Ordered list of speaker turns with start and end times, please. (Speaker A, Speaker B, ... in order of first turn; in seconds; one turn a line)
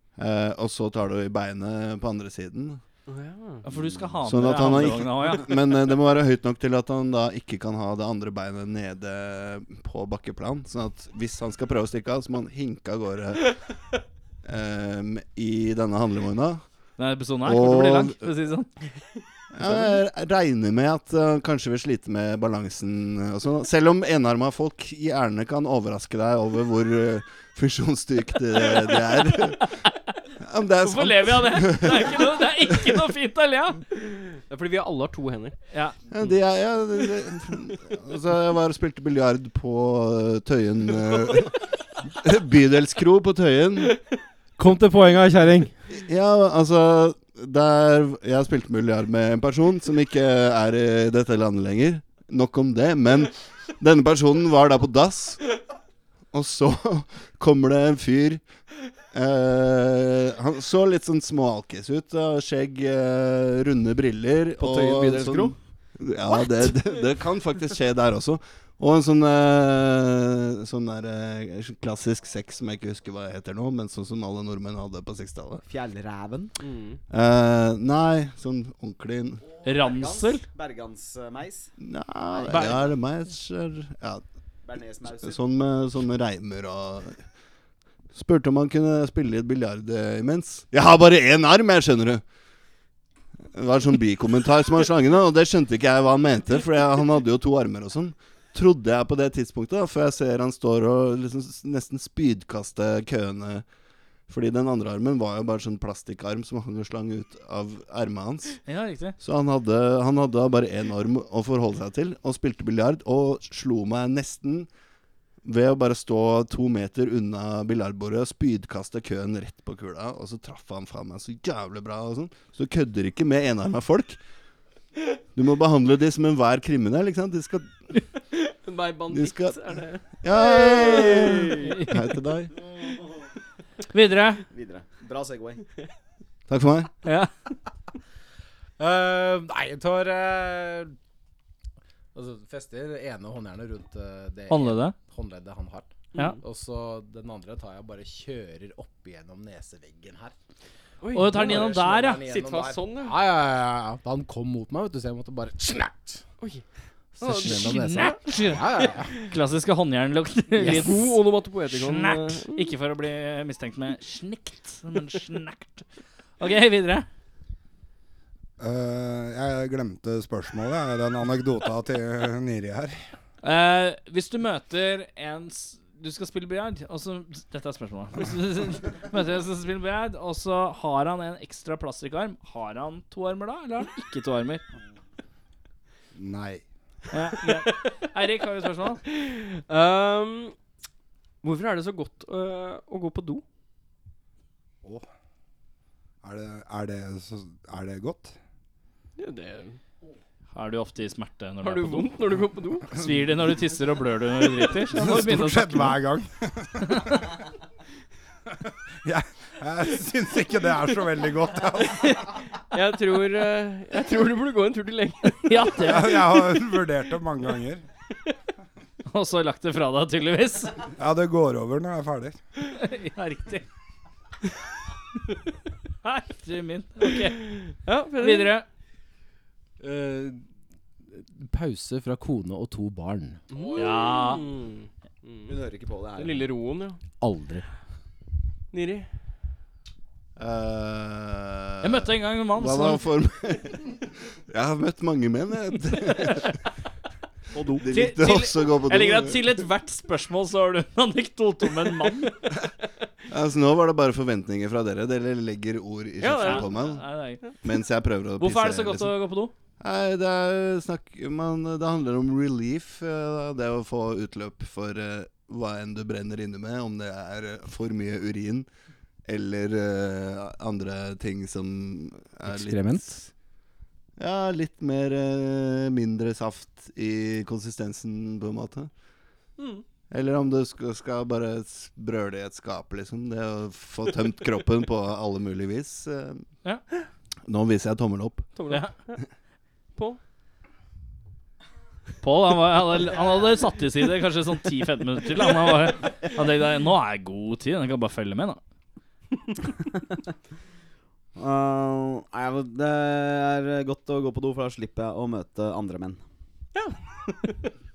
Speaker A: 0.2-2.8
Speaker B: 3.1-3.6
Speaker C: 3.6-5.5
Speaker A: 3.7-13.6
Speaker A: 14.4-16.6
Speaker C: 17.0-18.7
Speaker A: 17.4-18.2
Speaker A: 19.5-29.8
Speaker A: 30.4-32.3
Speaker C: 30.8-33.8
Speaker B: 34.3-35.6
Speaker C: 35.7-36.0
Speaker A: 36.1-44.0
Speaker D: 44.6-45.7
Speaker A: 45.9-55.6
Speaker A: 56.3-58.4
Speaker A: 59.1-75.6
Speaker E: 64.6-65.5
Speaker E: 75.6-76.5
Speaker B: 76.6-77.0
Speaker A: 77.1-79.5
Speaker C: 79.6-80.4
Speaker E: 79.8-81.7
Speaker A: 81.8-84.2
Speaker E: 82.2-82.8
Speaker E: 84.6-85.4
Speaker A: 85.2-87.2
Speaker A: 88.1-92.2
Speaker A: 93.5-103.7
Speaker A: 104.3-108.6
Speaker C: 108.7-109.2
Speaker A: 109.2-114.7
Speaker A: 115.4-124.2
Speaker A: 125.3-127.8
Speaker B: 128.3-130.1
Speaker A: 129.1-132.5
Speaker B: 130.6-131.9
Speaker E: 130.7-131.3
Speaker C: 133.9-134.4
Speaker E: 134.5-135.6
Speaker A: 136.5-136.9
Speaker C: 137.0-137.3
Speaker D: 138.8-140.9
Speaker D: 142.1-145.9
Speaker C: 144.5-144.9
Speaker B: 146.1-146.4
Speaker D: 146.4-150.3
Speaker B: 151.0-153.2
Speaker C: 151.1-152.2
Speaker D: 151.1-156.2
Speaker D: 157.2-159.1
Speaker B: 157.2-159.2
Speaker C: 157.4-165.8
Speaker B: 160.6-162.7
Speaker C: 166.4-167.1
Speaker F: 168.6-173.0
Speaker C: 173.4-184.6
Speaker F: 186.1-186.6
Speaker C: 187.1-189.0
Speaker B: 187.5-187.9
Speaker B: 189.1-190.5
Speaker B: 191.4-193.4
Speaker F: 196.2-198.3
Speaker B: 199.2-199.8
Speaker C: 200.5-202.1
Speaker B: 201.6-203.0
Speaker C: 202.9-206.0
Speaker F: 204.9-207.3
Speaker F: 209.0-212.2
Speaker B: 212.7-215.7
Speaker C: 215.4-216.2
Speaker F: 215.8-217.8
Speaker C: 219.1-220.8
Speaker F: 221.0-222.4
Speaker C: 222.7-223.6
Speaker C: 226.0-227.5
Speaker B: 227.4-228.5
Speaker C: 228.2-228.6
Speaker D: 229.8-230.4
Speaker D: 231.2-233.4
Speaker B: 233.5-235.5
Speaker C: 233.8-234.4
Speaker E: 235.5-236.5
Speaker B: 236.2-237.0
Speaker D: 237.2-237.6
Speaker B: 238.7-239.1
Speaker A: 240.4-246.5
Speaker C: 241.8-243.0
Speaker A: 247.7-249.4
Speaker C: 247.9-252.5
Speaker A: 253.3-257.0
Speaker B: 256.2-257.6
Speaker C: 256.4-257.4
Speaker A: 257.6-259.1
Speaker C: 258.4-259.5
Speaker A: 259.8-268.7
Speaker A: 269.2-273.2
Speaker D: 272.5-273.2
Speaker A: 274.2-278.9
Speaker B: 279.6-279.8
Speaker A: 280.1-286.4
Speaker A: 287.5-288.5
Speaker B: 288.6-289.2
Speaker C: 292.2-298.6
Speaker E: 301.4-306.2
Speaker B: 306.7-307.6